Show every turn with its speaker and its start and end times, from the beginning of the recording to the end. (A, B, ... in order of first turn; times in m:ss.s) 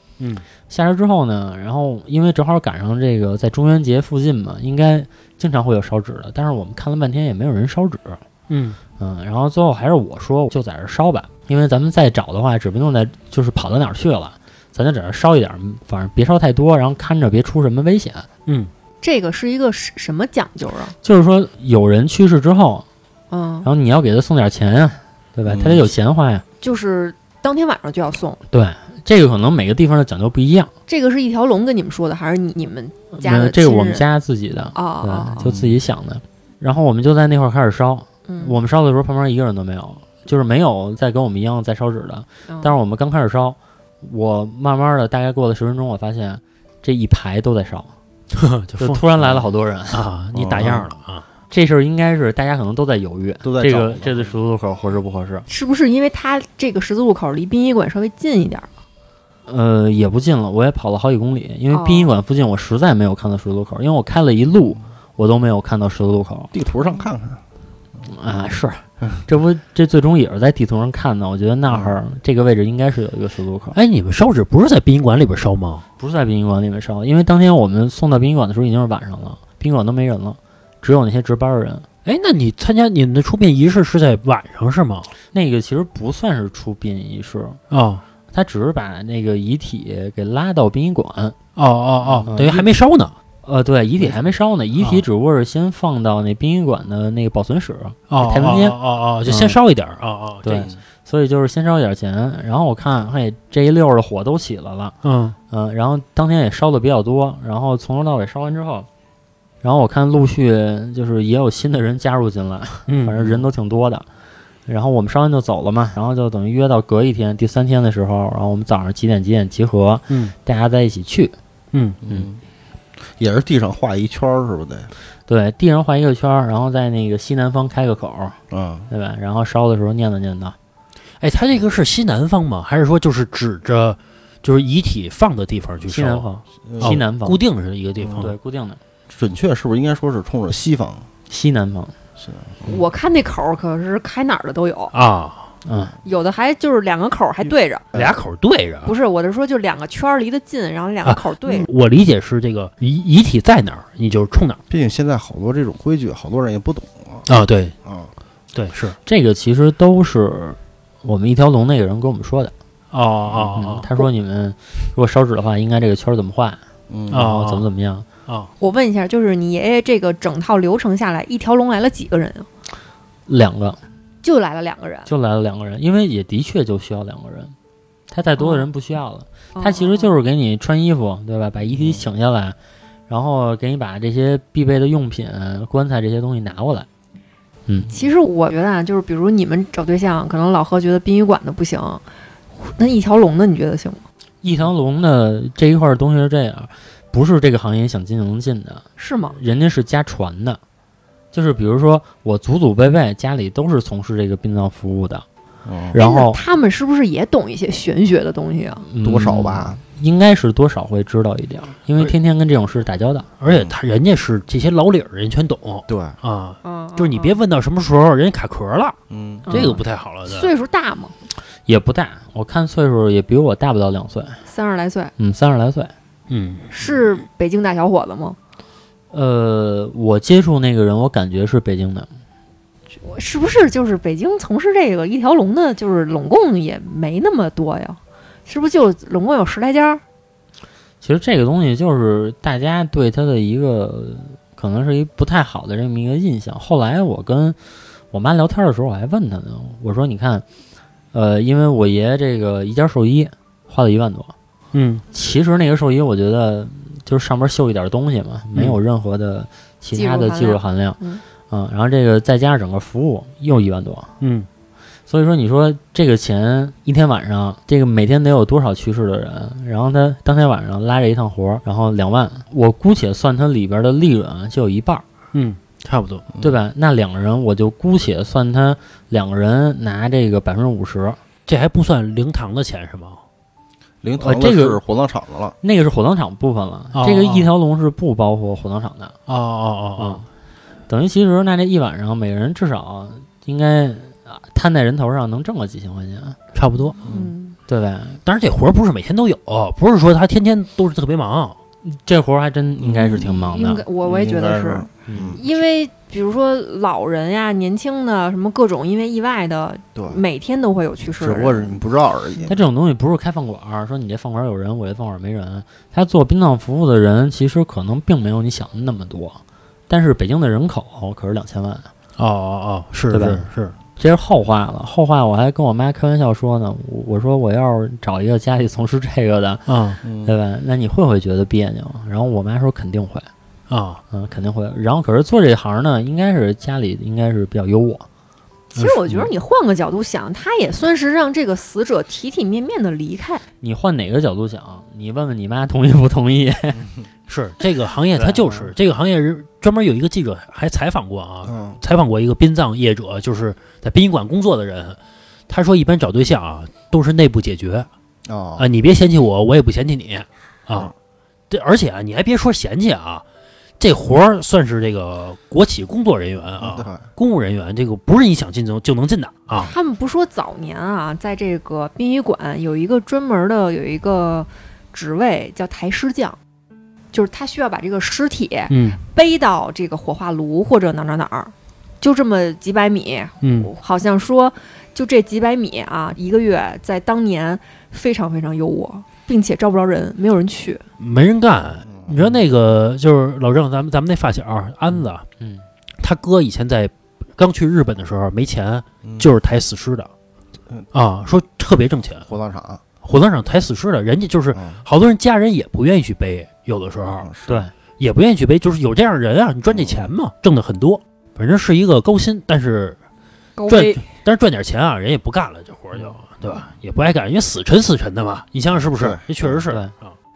0:00.2-0:00.4 A
0:00.7-0:08.2 B
0:08.5-0:08.8 A
0:09.0-0:18.3 B
0:19.0-0:20.9 C
0:21.0-0:22.8 B
0:23.3-0:23.7 C
0:23.6-0:26.4 B
0:25.4-0:25.8 D
0:26.6-0:28.4 C
0:28.5-0:30.7 B
0:30.9-0:34.0 C
0:33.1-0:47.9 B
0:34.7-0:35.5 C
0:35.4-0:35.7 D
0:38.3-0:38.6 C
0:42.5-0:42.7 C
0:48.3-0:49.0 A
0:48.8-0:50.0 B
0:49.9-0:51.2 A
0:50.3-0:50.9 D
0:51.5-0:55.4 B
0:53.4-0:54.4 D
0:55.5-0:58.7 C
0:59.5-1:06.5 B
1:01.7-1:02.2 C
1:06.5-1:07.4 D
1:08.0-1:13.8 B
1:11.7-1:12.0 D
1:13.7-1:15.8 A
1:16.0-1:21.9 B
1:22.0-1:25.1 A
1:25.3-1:27.6 B
1:27.7-1:28.0 A
1:28.3-1:31.4 B
1:31.6-1:33.1 A
1:32.0-1:32.3 D
1:32.3-1:32.7 B
1:33.4-1:39.6 B
1:34.8-1:35.0 A
1:38.1-1:40.7 A
1:40.4-1:45.0 B
1:45.0-1:45.4 A
1:45.5-1:48.9 B
1:49.6-1:54.0 B
1:52.9-1:53.2 A
1:54.7-2:01.3 B
2:01.7-2:02.0 A
2:02.0-2:02.4 D
2:03.2-2:04.9 D
2:05.3-2:08.4 B
2:08.5-2:08.9 D
2:08.9-2:10.6 B
2:11.2-2:16.3 A
2:15.8-2:17.4 B
2:16.6-2:17.0 D
2:16.8-2:18.3 A
2:18.0-2:18.3 D
2:18.2-2:18.8 B
2:19.1-2:21.1 D
2:21.3-2:21.9 B
2:22.2-2:22.8 D
2:22.6-2:24.9 C
2:24.9-2:25.5 A
2:25.6-2:25.9 B
2:26.0-2:27.8 C
2:27.9-2:28.9 A
2:28.8-2:31.7 C
2:31.0-2:34.6 A
2:34.7-2:37.3 D
2:37.3-2:37.8 A
2:37.8-2:38.1 D
2:38.5-2:39.0 A
2:39.0-2:42.5 B
2:42.9-2:43.9 A
2:43.5-2:46.6 B
2:46.9-2:47.2 D
2:47.1-2:47.7 A
2:47.1-2:48.1 B
2:48.6-2:52.5 C
2:53.3-2:53.8 B
2:54.2-2:55.1 C
2:55.1-2:57.5 B
2:58.1-3:02.6 B
2:58.4-2:58.7 C
2:59.5-3:00.1 C
3:01.7-3:02.0 D
3:03.1-3:06.9 B
3:07.9-3:12.0 C
3:12.6-3:14.0 C
3:14.4-3:20.6 B
3:19.0-3:19.4 C
3:21.3-3:25.2 B
3:25.6-3:26.0 D
3:25.9-3:26.4 B
3:26.0-3:28.8 C
3:28.8-3:33.3 B
3:29.0-3:29.8 D
3:33.4-3:39.0 A
3:33.5-3:33.7 D
3:35.9-3:36.2 D
3:36.6-3:37.4 C
3:39.1-3:39.6 D
3:39.5-3:41.1 C
3:39.5-3:40.5 A
3:41.6-3:44.4 B
3:44.4-3:45.1 C
3:45.2-3:45.9 B
3:46.3-3:46.7 A
3:46.7-3:48.4 C
3:49.1-3:52.1 B
3:53.0-4:00.0 C
4:01.0-4:07.6 B
4:08.1-4:10.4 B
4:11.1-4:14.3 B
4:14.7-4:15.0 A
4:15.1-4:24.1 B
4:18.5-4:18.8 A
4:19.9-4:21.2 C
4:24.2-4:24.5 A
4:25.1-4:35.0 B
4:35.3-4:36.2 A
4:36.4-4:41.2 B
4:41.5-4:43.2 A
4:44.0-4:45.6 D
4:44.2-4:44.8 B
4:45.6-4:49.2 B
4:46.9-4:47.5 A
4:49.3-4:50.2 A
4:50.0-4:50.2 B
4:50.9-4:56.4 B
4:56.5-4:57.0 A
4:57.0-4:57.3 D
4:57.0-4:57.6 C
4:57.7-4:58.2 B
4:58.2-5:01.6 A
5:01.8-5:03.8 B
5:02.8-5:03.4 D
5:03.5-5:11.8 C
5:04.0-5:05.4 D
5:05.1-5:05.4 B
5:09.9-5:10.2 D
5:11.2-5:12.6 D
5:12.5-5:21.9 B
5:22.2-5:23.7 A
5:23.1-5:29.6 B
5:29.6-5:30.0 A
5:30.0-5:30.3 D
5:30.2-5:33.3 B
5:33.7-5:34.0 A
5:34.1-5:38.0 B
5:38.7-5:43.4 C
5:38.8-5:39.3 A
5:43.6-5:46.8 B
5:47.3-5:55.0 A
5:48.2-5:48.7 B
5:51.4-5:51.8 D
5:55.5-5:57.9 A
5:58.2-5:58.7 D
5:58.6-6:00.9 A
6:01.5-6:03.2 A
6:03.8-6:09.7 A
6:06.6-6:07.0 D
6:09.5-6:16.4 C
6:17.1-6:30.8 C
6:18.7-6:19.0 A
6:23.4-6:23.7 A
6:31.0-6:35.2 A
6:31.8-6:32.4 D
6:34.9-6:35.6 B
6:36.0-6:40.1 A
6:39.0-6:39.3 D
6:40.9-6:42.3 A
6:42.2-6:42.8 D
6:43.0-6:47.3 A
6:44.5-6:44.8 D
6:47.2-6:47.6 D
6:47.5-6:47.7 B
6:48.0-6:53.0 A
6:49.7-6:50.1 D
6:53.6-6:54.0 C
6:53.7-7:00.1 A
6:58.9-6:59.6 D